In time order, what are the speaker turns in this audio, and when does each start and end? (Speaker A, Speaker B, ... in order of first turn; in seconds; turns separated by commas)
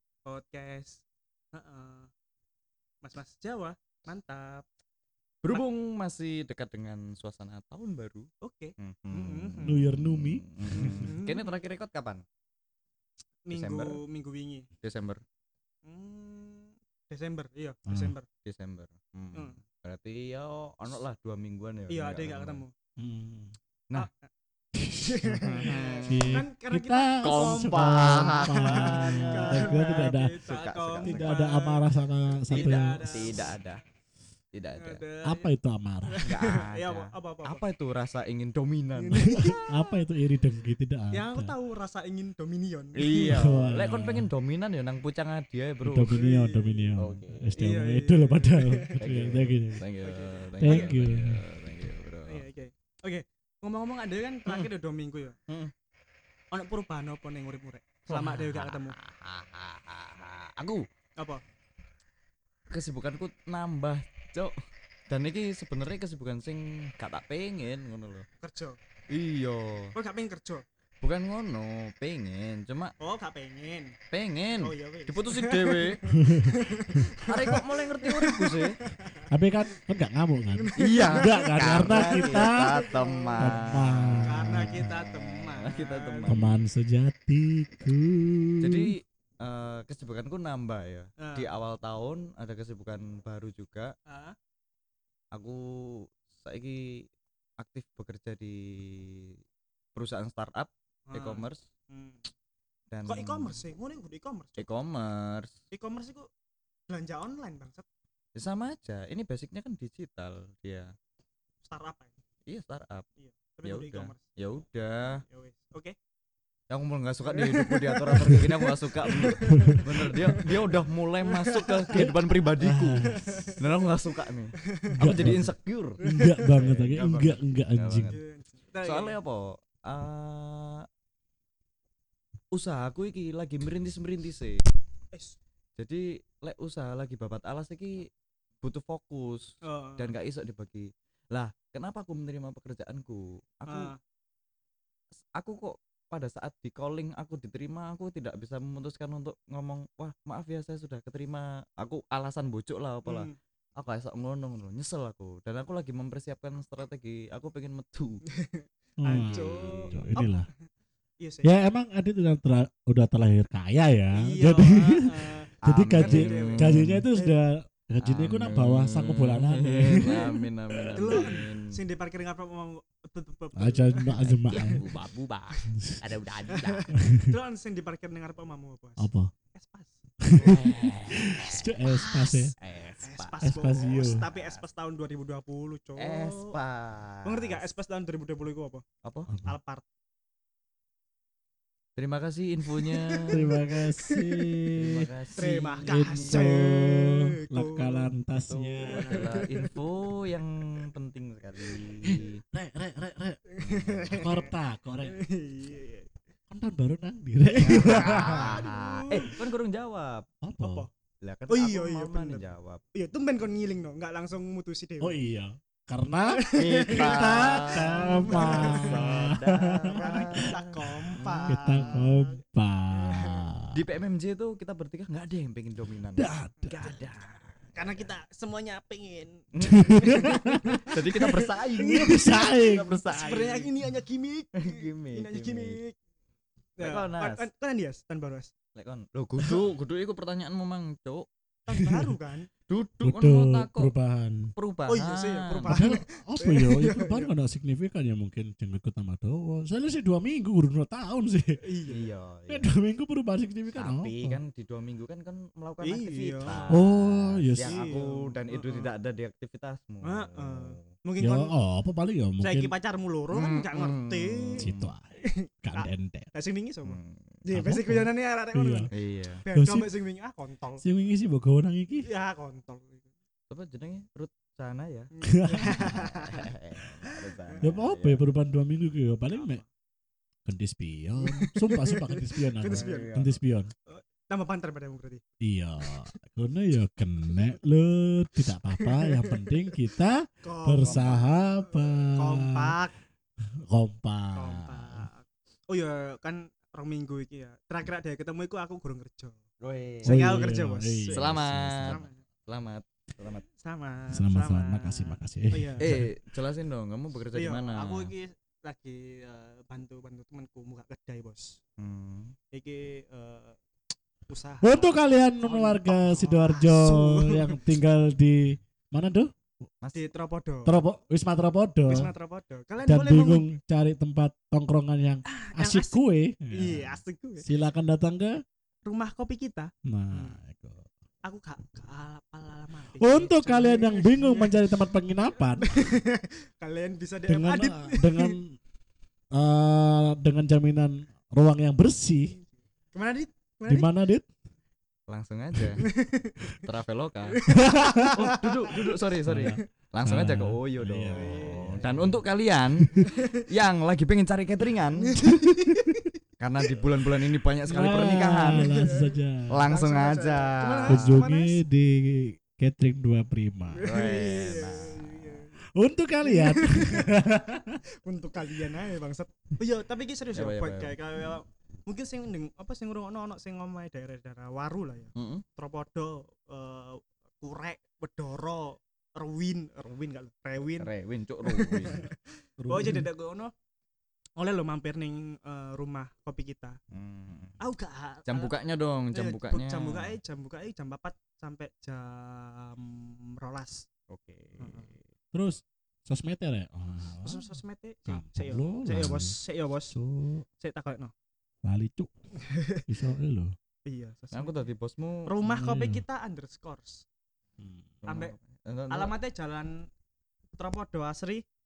Speaker A: 0.2-1.0, Speaker A: 1.5-2.1, Speaker A: 3.0-4.6, Speaker B: 5.4-12.2, Speaker A: 8.4-9.9, Speaker C: 9.6-11.1, Speaker A: 10.7-11.6, Speaker A: 13.4-14.7, Speaker B: 13.5-14.0, Speaker B: 14.8-15.2, Speaker A: 15.8-18.3, Speaker C: 17.9-18.1, Speaker B: 18.4-22.6, Speaker A: 21.9-22.7, Speaker C: 23.0-23.5, Speaker A: 23.9-24.2, Speaker C: 24.8-30.4, Speaker A: 24.9-31.9, Speaker B: 25.3-26.4, Speaker B: 27.2-31.4, Speaker C: 31.0-33.4, Speaker A: 32.5-33.5, Speaker B: 32.5-33.8, Speaker B: 34.5-35.0, Speaker A: 34.8-35.5, Speaker C: 35.2-36.2, Speaker A: 36.0-37.6, Speaker B: 36.2-39.5, Speaker A: 39.0-40.0, Speaker C: 39.4-41.5, Speaker A: 41.1-43.4, Speaker B: 43.0-46.2, Speaker C: 43.1-44.3, Speaker C: 45.8-49.8, Speaker A: 46.1-46.9, Speaker B: 47.0-47.6, Speaker A: 47.6-49.0, Speaker B: 49.0-52.4, Speaker A: 50.0-50.9, Speaker C: 50.6-51.4, Speaker A: 52.2-55.4, Speaker A: 56.5-59.0, Speaker B: 58.1-60.9, Speaker B: 62.7-64.5, Speaker B: 65.1-68.2, Speaker A: 68.4-68.8, Speaker B: 69.1-69.9, Speaker A: 69.9-70.6, Speaker B: 71.0-72.9, Speaker A: 73.0-74.0, Speaker B: 74.1-76.0, Speaker A: 74.6-79.3, Speaker C: 76.2-76.6, Speaker B: 77.2-78.8, Speaker C: 79.3-82.8, Speaker A: 80.5-86.4, Speaker B: 80.8-86.5, Speaker C: 83.4-84.9, Speaker C: 86.3-88.9, Speaker B: 88.6-93.9, Speaker A: 91.2-91.5, Speaker A: 94.1-94.3, Speaker B: 95.3-97.1, Speaker B: 97.6-99.3, Speaker B: 99.9-101.6, Speaker A: 101.1-102.3, Speaker B: 102.9-103.6, Speaker A: 103.0-104.7, Speaker B: 104.6-105.5, Speaker A: 105.7-106.3, Speaker A: 106.9-107.8, Speaker B: 108.3-110.9, Speaker A: 111.6-112.1, Speaker B: 112.5-113.0, Speaker A: 113.2-114.2, Speaker B: 113.6-115.2, Speaker A: 115.2-115.9, Speaker B: 116.7-128.2, Speaker A: 117.2-122.1, Speaker C: 119.5-119.8, Speaker C: 121.9-123.5, Speaker A: 123.0-123.6, Speaker A: 124.6-125.3, Speaker C: 125.0-128.2, Speaker A: 126.0-126.4, Speaker A: 128.1-129.2, Speaker B: 128.8-130.8, Speaker B: 132.5-134.6, Speaker A: 135.1-135.4, Speaker B: 135.8-138.1, Speaker B: 138.6-143.9, Speaker A: 139.6-140.1, Speaker A: 143.7-144.0, Speaker B: 145.3-158.2, Speaker A: 153.1-153.3, Speaker A: 158.3-160.4, Speaker C: 159.0-160.5, Speaker B: 159.2-160.2, Speaker A: 161.2-161.6, Speaker C: 161.4-170.3, Speaker A: 164.1-167.4, Speaker B: 165.6-167.1, Speaker B: 168.0-171.8, Speaker A: 170.0-170.4, Speaker A: 170.9-174.9, Speaker C: 173.6-174.9, Speaker B: 174.4-176.8, Speaker C: 175.7-176.0, Speaker A: 176.5-180.0, Speaker C: 176.9-177.3, Speaker C: 179.0-179.3, Speaker C: 180.2-182.5, Speaker B: 180.4-181.7, Speaker A: 181.2-186.6, Speaker B: 182.6-184.6, Speaker C: 183.4-184.2, Speaker B: 186.0-187.6, Speaker A: 187.2-188.8, Speaker B: 189.0-189.3, Speaker C: 189.3-189.5, Speaker A: 189.4-189.8, Speaker B: 192.0-193.5, Speaker A: 192.7-194.6, Speaker C: 193.3-199.2, Speaker B: 194.8-196.6, Speaker A: 195.3-198.1, Speaker B: 198.5-202.4, Speaker A: 198.8-199.7, Speaker C: 202.0-203.4, Speaker A: 203.5-206.1, Speaker B: 203.6-204.3, Speaker C: 204.2-205.2, Speaker C: 206.5-208.7, Speaker A: 207.5-209.3, Speaker B: 207.6-210.2, Speaker C: 210.4-210.9, Speaker A: 210.6-210.9, Speaker B: 211.2-212.8, Speaker A: 211.5-212.4, Speaker A: 212.9-215.2, Speaker C: 215.0-220.5, Speaker A: 216.3-219.3, Speaker B: 216.6-222.1, Speaker A: 219.9-222.4, Speaker C: 221.5-223.8, Speaker A: 222.9-223.4, Speaker B: 223.7-228.1, Speaker C: 226.1-226.5, Speaker A: 226.6-227.0, Speaker A: 227.7-232.2, Speaker B: 229.5-233.7, Speaker C: 229.6-233.0, Speaker A: 233.1-235.9, Speaker B: 234.5-235.8, Speaker A: 236.8-238.5, Speaker B: 236.8-237.4, Speaker B: 238.7-241.3, Speaker A: 241.7-242.5, Speaker C: 241.8-242.1, Speaker B: 242.7-243.9, Speaker C: 243.0-244.5, Speaker B: 244.6-245.8, Speaker A: 244.9-247.3, Speaker C: 245.7-251.6, Speaker A: 251.6-252.1, Speaker B: 251.9-252.7, Speaker C: 252.5-254.4, Speaker B: 253.7-260.9, Speaker A: 255.8-256.8, Speaker C: 256.7-257.8, Speaker A: 257.6-258.9, Speaker A: 260.0-261.5, Speaker C: 261.2-262.7, Speaker A: 262.4-264.6, Speaker B: 263.3-264.9, Speaker C: 264.6-266.3, Speaker A: 265.2-268.9, Speaker B: 266.9-267.4, Speaker C: 267.5-268.9, Speaker B: 268.9-269.4, Speaker A: 269.4-270.8, Speaker C: 269.5-269.9, Speaker C: 270.8-272.1, Speaker A: 272.0-273.1, Speaker B: 273.5-275.1, Speaker A: 275.1-277.6, Speaker C: 275.3-275.9, Speaker B: 275.8-278.2, Speaker C: 277.6-279.6, Speaker A: 279.3-279.6, Speaker C: 280.4-283.7, Speaker A: 281.2-283.1, Speaker B: 282.6-283.4, Speaker A: 283.9-285.2, Speaker C: 285.4-292.8, Speaker A: 285.9-286.1, Speaker A: 288.8-289.7, Speaker A: 290.4-292.9, Speaker B: 290.8-291.3, Speaker C: 293.7-295.1, Speaker A: 294.3-299.4, Speaker B: 299.6-300.5, Speaker C: 300.0-302.1, Speaker A: 300.0-302.2, Speaker B: 301.1-303.4, Speaker A: 303.6-306.0, Speaker C: 304.1-306.1, Speaker B: 305.8-308.1, Speaker A: 307.3-311.6, Speaker B: 311.8-312.4, Speaker A: 312.5-313.6, Speaker A: 314.3-317.6, Speaker C: 314.6-319.3, Speaker B: 319.8-320.1, Speaker A: 319.9-320.8, Speaker C: 320.6-322.1, Speaker A: 321.9-323.5, Speaker C: 322.9-328.4, Speaker A: 325.2-327.5, Speaker A: 328.9-330.4, Speaker C: 329.8-330.9, Speaker A: 331.2-334.7, Speaker C: 333.0-336.0, Speaker A: 335.6-338.4, Speaker C: 337.3-338.6, Speaker C: 339.3-342.4, Speaker A: 342.9-343.9, Speaker C: 343.7-344.3, Speaker B: 345.1-345.9, Speaker A: 345.8-346.6, Speaker B: 346.6-347.5, Speaker A: 347.4-349.6, Speaker C: 347.5-348.1, Speaker B: 348.0-355.2, Speaker C: 349.2-352.2, Speaker A: 351.1-351.9, Speaker C: 352.8-353.1, Speaker A: 353.0-353.4, Speaker A: 355.0-356.1, Speaker B: 356.4-358.7, Speaker C: 357.7-359.6, Speaker A: 358.4-361.6, Speaker B: 359.5-361.2, Speaker C: 360.9-363.9, Speaker A: 363.7-365.6, Speaker B: 363.8-365.4, Speaker C: 365.7-367.8, Speaker A: 366.2-367.3, Speaker A: 368.0-380.9, Speaker B: 370.3-371.0, Speaker B: 375.1-375.4, Speaker B: 380.8-382.1, Speaker A: 381.5-383.5, Speaker C: 382.6-383.1, Speaker A: 384.4-386.8, Speaker B: 386.9-387.6, Speaker A: 387.6-388.5, Speaker B: 388.3-390.2, Speaker A: 389.1-393.9, Speaker B: 394.1-395.0, Speaker A: 394.6-394.9, Speaker C: 395.3-397.5, Speaker A: 397.2-399.9, Speaker C: 398.1-399.4, Speaker C: 399.9-400.4, Speaker A: 400.6-401.1, Speaker C: 401.6-402.1, Speaker A: 402.4-402.9, Speaker C: 402.9-403.5, Speaker A: 403.9-404.7, Speaker B: 404.3-405.3, Speaker A: 405.2-407.0, Speaker C: 405.4-406.0, Speaker C: 407.6-407.9, Speaker B: 408.0-409.1, Speaker A: 408.1-408.3, Speaker A: 408.9-409.9, Speaker A: 410.6-411.4